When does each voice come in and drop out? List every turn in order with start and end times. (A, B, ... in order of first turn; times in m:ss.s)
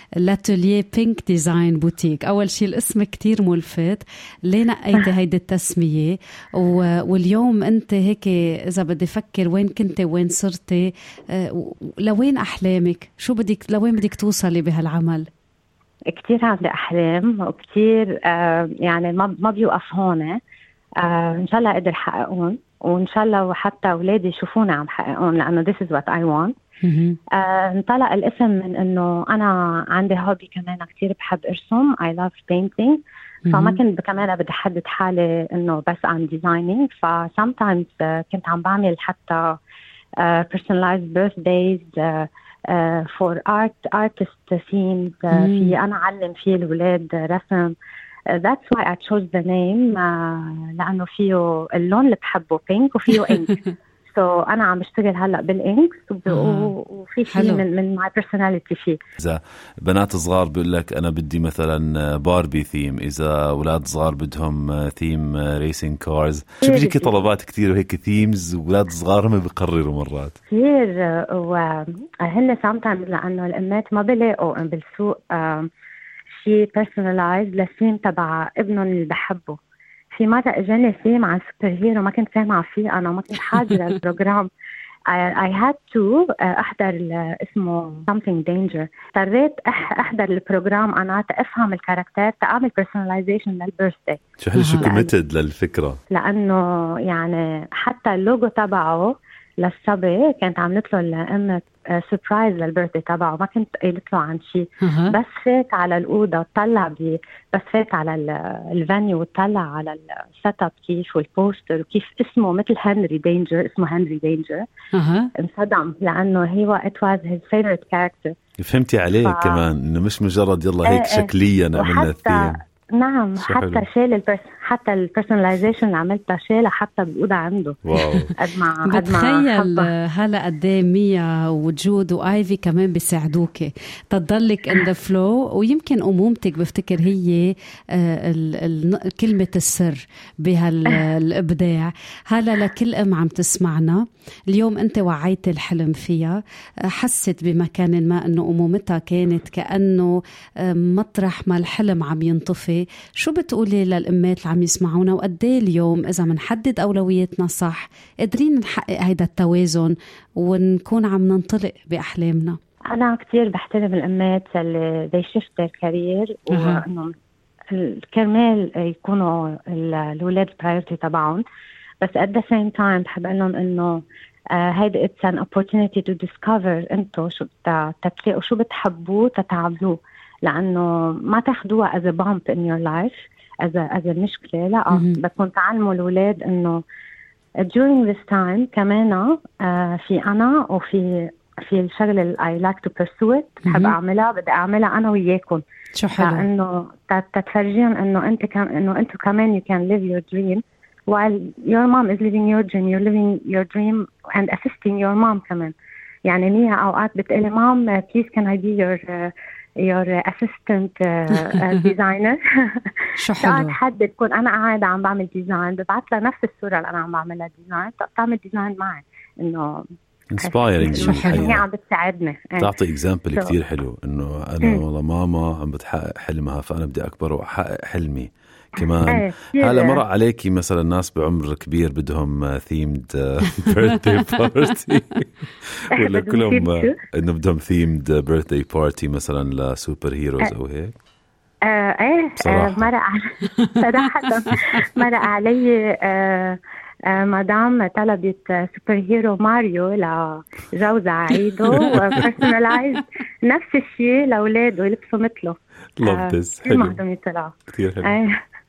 0:00.2-0:15.3 A
0:16.1-0:20.4 B
0:21.0-0:26.5 B
0:26.8-0:27.2 A
0:27.4-0:33.0 B
0:33.4-0:33.8 A
0:33.5-0:39.6 B
0:40.2-0:47.7 B
0:45.3-0:45.8 A
0:48.3-0:53.5 B
0:54.1-0:59.0 B
0:56.3-0:56.7 A
0:57.3-0:57.6 A
0:59.2-1:10.4 C
1:06.6-1:07.2 B
1:10.5-1:15.7 B
1:16.4-1:19.6 B
1:20.1-1:24.5 B
1:25.1-1:34.2 B
1:34.4-1:36.0 C
1:34.6-1:34.9 A
1:34.8-1:35.1 B
1:36.1-1:54.6 B
1:44.8-1:45.2 A
1:54.9-1:55.3 A
1:55.4-1:58.3 B
1:58.6-2:02.6 C
1:59.2-1:59.6 B
2:00.9-2:07.8 B
2:03.4-2:03.8 C
2:07.8-2:08.3 C
2:08.4-2:09.9 B
2:08.9-2:42.6 A
2:42.9-2:47.1 B
2:46.5-2:46.8 A
2:47.7-2:51.4 B
2:52.0-2:54.0 B
2:54.6-3:06.8 B
3:07.7-3:15.6 B
3:13.6-3:14.0 A
3:16.0-3:16.5 A
3:16.2-3:25.7 B
3:26.3-3:29.3 B
3:29.8-3:32.9 B
3:33.2-3:33.8 A
3:33.4-3:39.8 B
3:40.3-3:41.7 C
3:40.4-3:42.7 B
3:40.9-3:41.5 A
3:42.6-4:00.9 C
3:49.1-3:50.0 B
3:56.0-3:57.0 B
4:01.7-4:18.4 B
4:02.4-4:02.9 C
4:16.0-4:17.0 C
4:17.7-4:18.1 C